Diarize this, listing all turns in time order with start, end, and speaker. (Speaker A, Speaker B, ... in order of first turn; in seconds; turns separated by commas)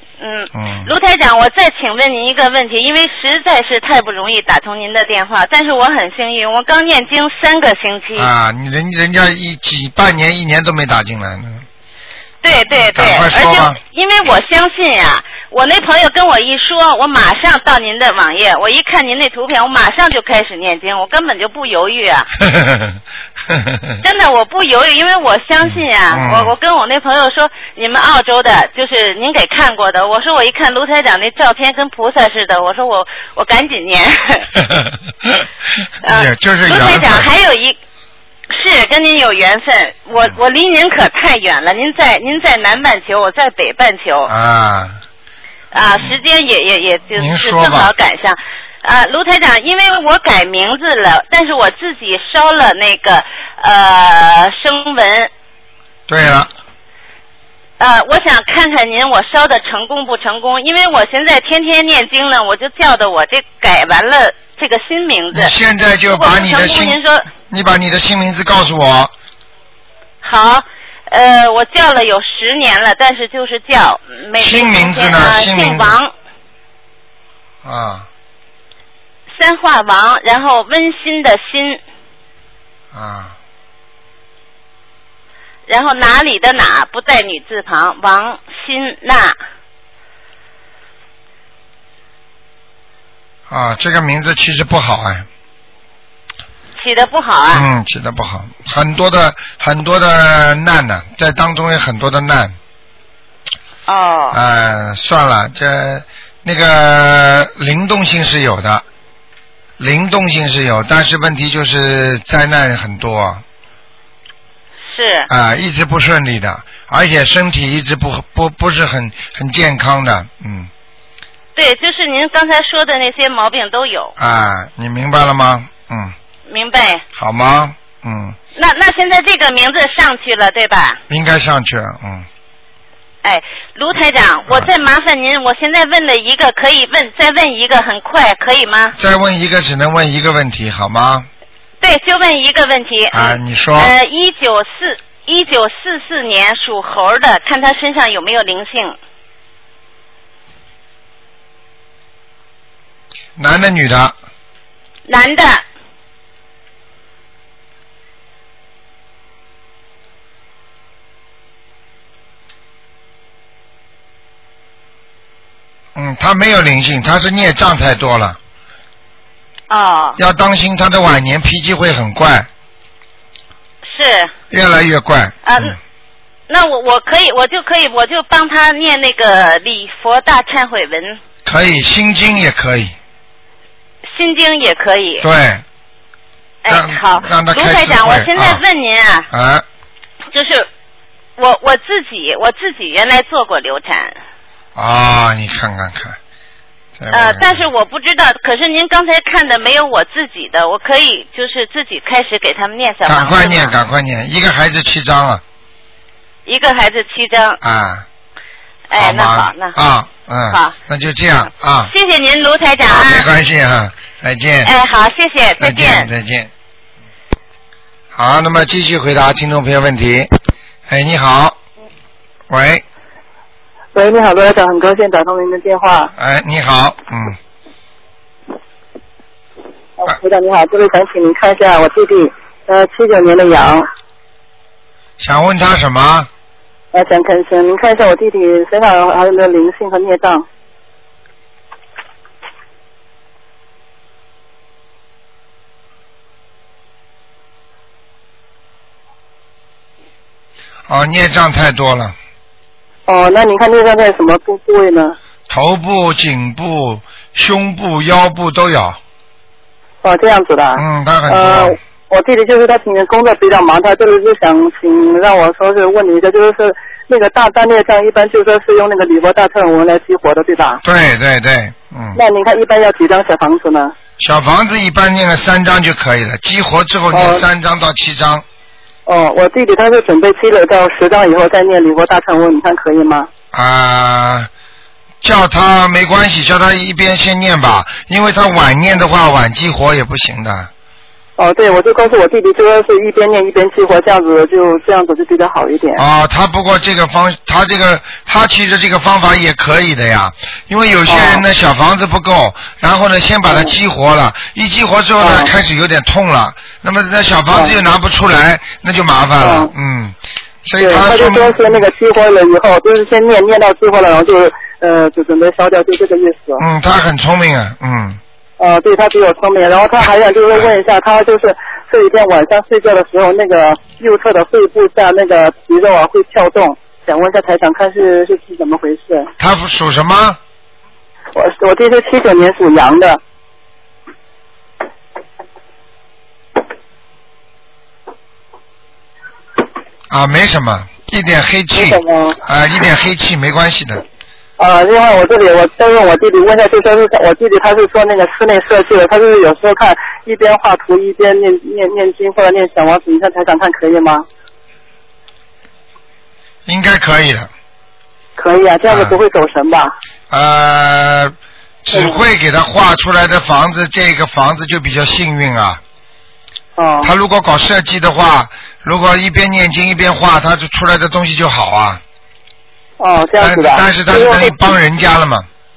Speaker A: 0.2-8.3, Speaker B: 0.5-0.9, Speaker B: 8.2-11.6, Speaker A: 12.4-22.3, Speaker B: 12.9-13.8, Speaker B: 22.4-23.0, Speaker B: 23.5-24.0, Speaker A: 24.0-34.5, Speaker B: 25.6-26.5, Speaker B: 34.7-35.4, Speaker B: 36.0-37.3, Speaker A: 36.0-37.8, Speaker A: 38.5-44.3, Speaker B: 44.3-45.0, Speaker A: 45.7-55.3, Speaker B: 47.1-47.9, Speaker B: 56.1-56.5, Speaker A: 57.8-65.5, Speaker B: 65.3-67.0, Speaker A: 66.1-67.3, Speaker B: 67.5-69.1, Speaker A: 70.2-76.1, Speaker B: 74.4-76.0, Speaker B: 77.6-78.1, Speaker A: 79.3-81.8, Speaker B: 82.9-83.3, Speaker A: 85.7-89.4, Speaker B: 93.5-95.3, Speaker A: 96.8-97.7, Speaker B: 97.5-102.5, Speaker A: 103.9-104.4, Speaker B: 104.3-108.8, Speaker B: 109.8-113.4, Speaker A: 114.9-115.3, Speaker B: 115.3-120.7, Speaker A: 121.5-124.1, Speaker B: 124.2-126.1, Speaker A: 126.5-127.0, Speaker B: 127.2-128.4, Speaker A: 128.5-131.0, Speaker B: 131.1-132.3, Speaker A: 133.2-138.9, Speaker B: 138.9-141.3, Speaker A: 141.8-149.0, Speaker B: 143.1-143.9, Speaker B: 153.4-154.1, Speaker A: 155.1-155.6, Speaker B: 165.9-168.4, Speaker A: 169.7-170.2, Speaker B: 170.2-172.5, Speaker A: 173.8-174.3, Speaker B: 174.5-175.8, Speaker A: 175.4-175.8, Speaker A: 176.5-181.2, Speaker B: 181.4-182.9, Speaker A: 184.1-185.2, Speaker B: 185.2-185.6, Speaker A: 186.6-189.3, Speaker B: 186.7-188.6, Speaker B: 189.3-189.6, Speaker A: 190.3-190.7, Speaker A: 191.4-194.2, Speaker B: 194.8-196.2, Speaker B: 197.0-197.6, Speaker A: 197.1-203.7, Speaker B: 203.1-205.4, Speaker A: 206.4-207.6, Speaker B: 207.6-208.0, Speaker A: 208.9-209.7, Speaker B: 208.9-211.9, Speaker A: 211.9-213.3, Speaker B: 212.8-214.7, Speaker A: 214.6-216.1, Speaker B: 215.6-216.5, Speaker B: 218.1-220.3, Speaker B: 220.9-221.6, Speaker B: 222.5-222.8, Speaker C: 223.9-226.1, Speaker B: 226.2-227.4, Speaker C: 230.0-233.8, Speaker B: 235.2-236.3, Speaker C: 236.9-240.4, Speaker B: 250.9-252.2, Speaker C: 253.1-255.2, Speaker B: 255.5-259.0, Speaker C: 260.0-270.8, Speaker B: 260.7-261.8, Speaker B: 270.8-272.2, Speaker C: 272.1-273.9, Speaker B: 274.2-278.4, Speaker C: 277.1-277.4, Speaker C: 279.1-283.3, Speaker B: 283.5-284.5, Speaker B: 285.2-290.7, Speaker C: 291.4-296.0, Speaker B: 295.9-311.6, Speaker C: 301.1-301.4, Speaker C: 305.2-305.5, Speaker C: 309.4-309.7, Speaker C: 310.8-316.6, Speaker B: 316.6-318.2, Speaker C: 318.6-329.3, Speaker B: 329.4-330.4, Speaker C: 331.3-333.2, Speaker B: 340.1-344.0, Speaker C: 341.7-342.4, Speaker C: 344.6-354.2, Speaker B: 356.6-357.5, Speaker C: 358.4-359.9, Speaker B: 358.9-359.2, Speaker B: 360.3-365.8, Speaker C: 361.9-362.2, Speaker C: 366.8-367.1, Speaker B: 367.0-372.0, Speaker C: 373.0-374.7, Speaker B: 373.4-375.5